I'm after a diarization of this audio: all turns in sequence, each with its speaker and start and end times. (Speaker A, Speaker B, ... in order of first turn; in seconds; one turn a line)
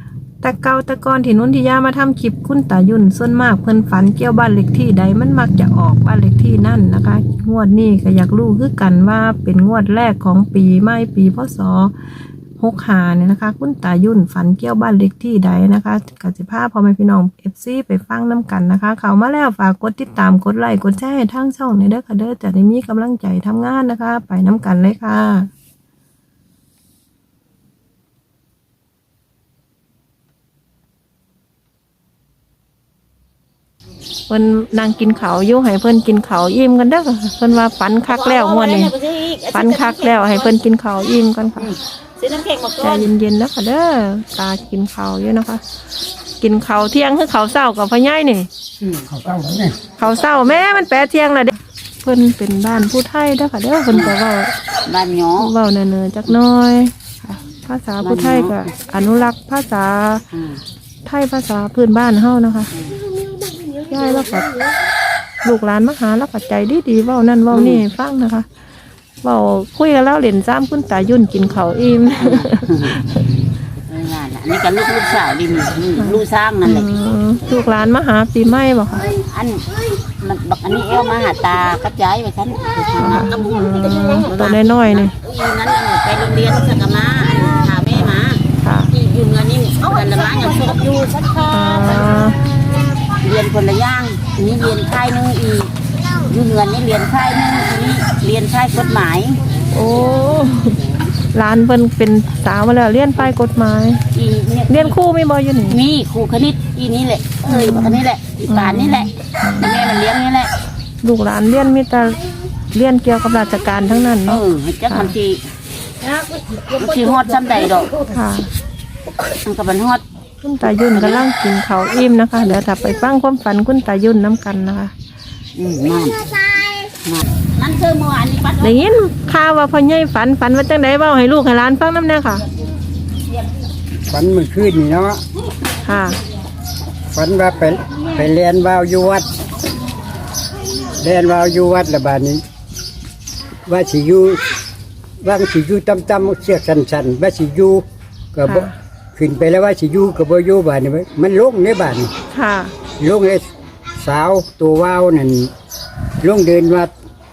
Speaker A: 0.4-11.9
Speaker A: 12.6-25.5
Speaker A: 34.3-41.8
Speaker B: 38.1-40.3
Speaker B: 42.2-43.0
Speaker A: 42.8-45.6
Speaker A: 46.4-48.5
Speaker C: 48.8-49.8
Speaker A: 50.0-54.5
Speaker B: 54.9-55.5
Speaker A: 55.4-60.2
Speaker B: 58.0-58.6
Speaker B: 60.3-60.6
Speaker A: 61.0-62.7
Speaker A: 63.9-64.5
Speaker A: 65.4-68.5
Speaker B: 67.5-67.8
Speaker A: 69.2-73.2
Speaker B: 72.3-72.9
Speaker B: 73.9-76.9
Speaker A: 76.0-79.2
Speaker B: 79.1-79.7
Speaker B: 80.2-91.5
Speaker A: 83.0-85.1
Speaker A: 87.9-88.9
Speaker A: 91.5-92.4
Speaker B: 93.2-95.7
Speaker B: 96.2-99.4
Speaker A: 99.7-100.8
Speaker A: 101.3-104.0
Speaker B: 104.1-104.9
Speaker A: 104.7-105.8
Speaker B: 105.7-110.5
Speaker A: 107.5-110.0
Speaker A: 111.0-115.1
Speaker B: 114.3-115.4
Speaker B: 116.6-118.0
Speaker A: 118.1-118.5
Speaker B: 119.4-120.0
Speaker A: 120.4-124.9
Speaker B: 120.9-121.2
Speaker B: 125.5-128.8
Speaker A: 128.6-132.4
Speaker C: 134.1-135.2
Speaker A: 135.8-136.2
Speaker C: 137.1-139.3
Speaker C: 141.0-142.4
Speaker C: 143.7-144.4
Speaker C: 145.2-152.1
Speaker A: 148.4-148.7
Speaker A: 152.3-152.7
Speaker C: 153.0-155.5
Speaker C: 156.2-156.9